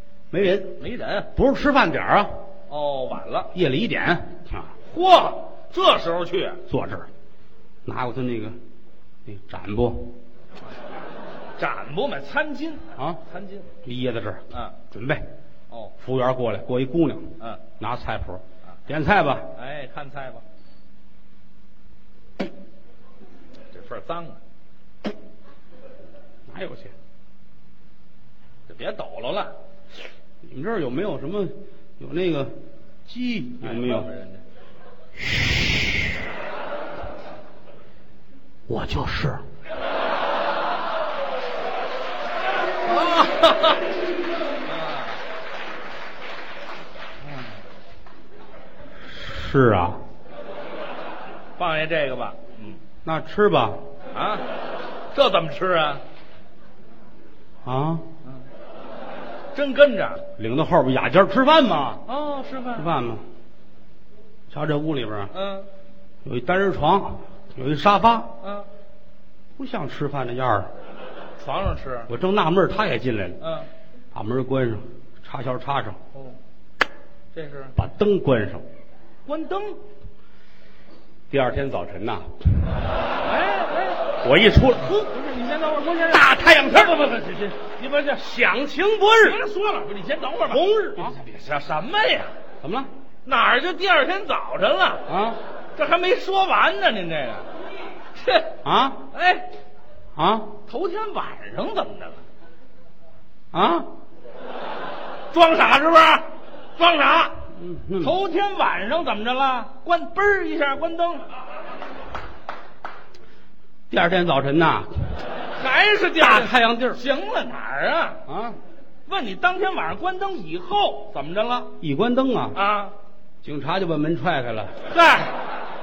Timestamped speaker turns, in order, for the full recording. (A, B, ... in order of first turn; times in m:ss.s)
0:00.3-0:00.8 A
0:00.4-0:01.3 B
0:01.3-0:02.3 A
0:02.7-0:03.5 B
0:03.5-0:04.7 A
0:04.8-0:06.6 B
0:06.7-0:07.1 A
0:07.8-0:08.6 A
0:09.2-0:10.2 A
0:11.6-0:13.7 B
0:13.8-0:15.2 A
0:16.0-0:19.5 A
0:19.5-0:20.4 B
0:23.7-0:24.4 B
0:26.5-0:26.9 A
0:28.7-0:29.5 B
0:30.4-0:32.5 A
0:33.0-0:34.1 A
0:33.6-0:34.4 B
0:38.7-0:39.4 A
0:42.8-0:43.8 B
0:44.6-0:45.2 B
0:47.2-0:47.5 B
0:49.0-0:50.0 A
0:51.6-0:52.8 B
0:53.0-0:53.8 A
0:54.1-0:54.4 B
0:55.1-0:56.0 B
0:57.6-0:58.0 A
0:59.5-1:00.2 B
1:00.4-1:02.0 A
1:02.0-1:02.9 B
1:02.8-1:03.2 A
1:04.5-1:05.3 A
1:05.3-1:05.7 B
1:06.2-1:08.3 A
1:08.4-1:08.7 B
1:09.6-1:10.7 A
1:11.4-1:12.1 B
1:12.1-1:13.4 A
1:13.4-1:13.7 B
1:14.1-1:16.0 A
1:17.3-1:17.7 B
1:17.8-1:18.6 A
1:19.2-1:19.8 B
1:21.3-1:22.3 A
1:23.2-1:24.1 B
1:24.2-1:25.1 A
1:25.0-1:28.2 B
1:26.1-1:27.2 A
1:28.1-1:29.4 A
1:29.2-1:32.3 B
1:30.5-1:31.2 A
1:32.6-1:32.9 A
1:33.2-1:35.0 B
1:35.1-1:35.4 A
1:35.7-1:37.5 B
1:38.2-1:38.5 B
1:38.6-1:39.0 A
1:39.1-1:39.5 B
1:40.2-1:40.6 A
1:40.7-1:42.2 B
1:43.5-1:43.9 A
1:45.3-1:47.4 B
1:47.5-1:48.2 A
1:48.0-1:51.2 B
1:53.9-1:54.9 A
1:55.5-1:58.2 B
1:56.2-1:57.0 A
1:58.3-1:58.6 A
1:59.1-2:01.7 B
2:01.8-2:02.6 A
2:02.5-2:02.9 B
2:03.4-2:04.8 A
2:04.9-2:05.4 B